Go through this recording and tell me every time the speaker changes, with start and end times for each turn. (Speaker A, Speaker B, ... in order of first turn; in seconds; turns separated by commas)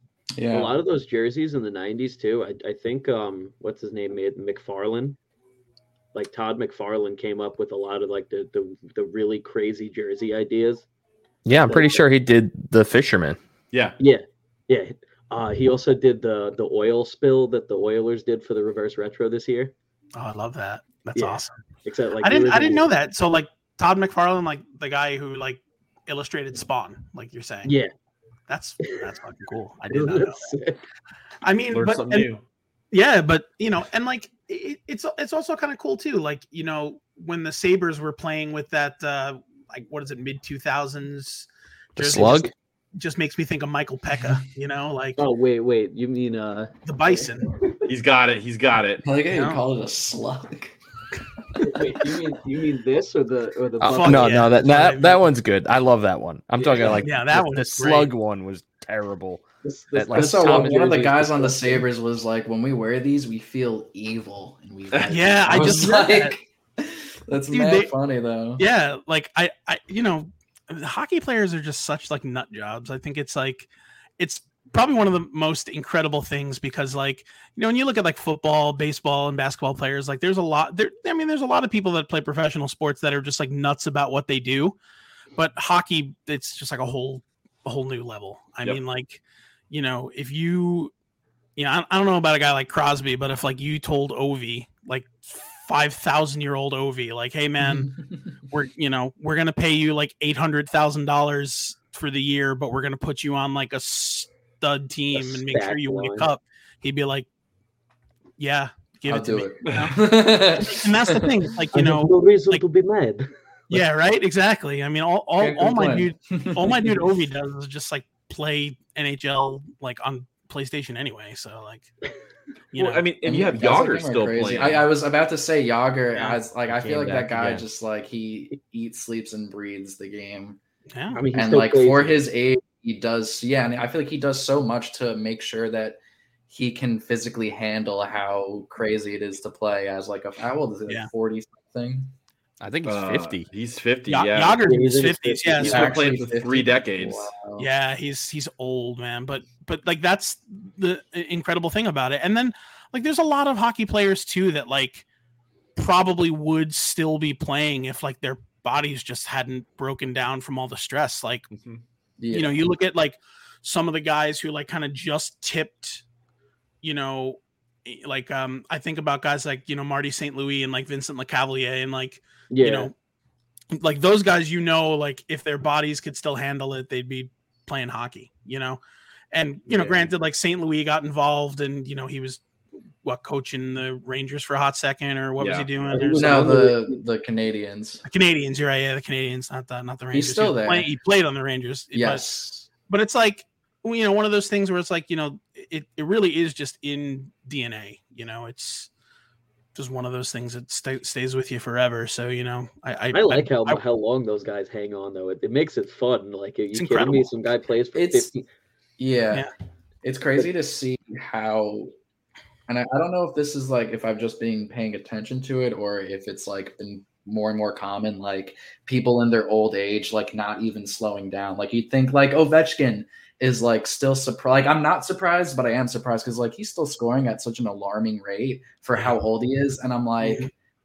Speaker A: 0.3-0.8, Speaker B: 0.5-5.2, Speaker B: 6.1-10.8, Speaker C: 11.4-13.4, Speaker B: 11.7-12.0, Speaker D: 13.7-14.0, Speaker B: 14.0-19.7, Speaker E: 20.1-21.6, Speaker B: 21.1-22.8, Speaker E: 22.2-27.7, Speaker B: 27.6-27.9, Speaker E: 28.5-30.5, Speaker B: 29.9-30.8, Speaker E: 31.4-32.3, Speaker D: 31.7-32.4, Speaker E: 32.9-45.2, Speaker C: 42.0-42.5, Speaker B: 45.2-47.9, Speaker E: 46.9-47.5, Speaker D: 47.9-49.0, Speaker A: 49.0-50.8, Speaker E: 49.3-49.6, Speaker A: 51.5-52.3, Speaker B: 51.6-54.7, Speaker C: 53.8-61.0, Speaker E: 53.9-55.2, Speaker B: 56.6-57.0, Speaker E: 56.9-58.1, Speaker B: 59.6-61.8, Speaker A: 60.1-68.6, Speaker E: 65.1-66.3, Speaker E: 67.5-67.9, Speaker E: 68.6-84.8, Speaker E: 85.3-90.9, Speaker E: 91.5-97.9, Speaker A: 97.6-98.4, Speaker E: 98.5-107.3, Speaker B: 105.1-106.3, Speaker E: 108.4-110.0, Speaker A: 109.1-111.4, Speaker E: 110.5-112.6, Speaker B: 111.7-113.3, Speaker E: 113.7-121.9, Speaker A: 115.4-117.0, Speaker E: 122.7-123.1, Speaker D: 122.8-124.8, Speaker A: 123.2-130.6, Speaker E: 126.1-126.4, Speaker C: 126.7-127.6, Speaker E: 130.9-131.2, Speaker B: 131.1-132.2, Speaker A: 131.3-142.1, Speaker C: 142.6-143.5, Speaker D: 142.8-144.6, Speaker E: 144.1-145.9, Speaker B: 144.6-145.7, Speaker D: 145.6-147.3, Speaker A: 145.6-147.7, Speaker E: 147.6-155.1, Speaker E: 155.8-161.5, Speaker D: 161.5-161.8, Speaker A: 162.2-162.6, Speaker E: 162.3-166.0, Speaker E: 166.8-172.9, Speaker B: 172.5-172.9, Speaker E: 173.7-178.8, Speaker E: 179.3-182.4, Speaker E: 183.0-186.5, Speaker D: 185.4-185.7, Speaker B: 185.9-187.0, Speaker A: 186.1-188.0, Speaker E: 188.0-198.9, Speaker A: 190.1-190.9, Speaker A: 191.9-192.7, Speaker E: 199.7-203.8, Speaker B: 203.1-208.4, Speaker E: 206.7-207.3, Speaker A: 207.9-208.3, Speaker A: 209.0-209.5, Speaker A: 210.0-211.9, Speaker A: 212.7-230.5, Speaker E: 230.2-230.5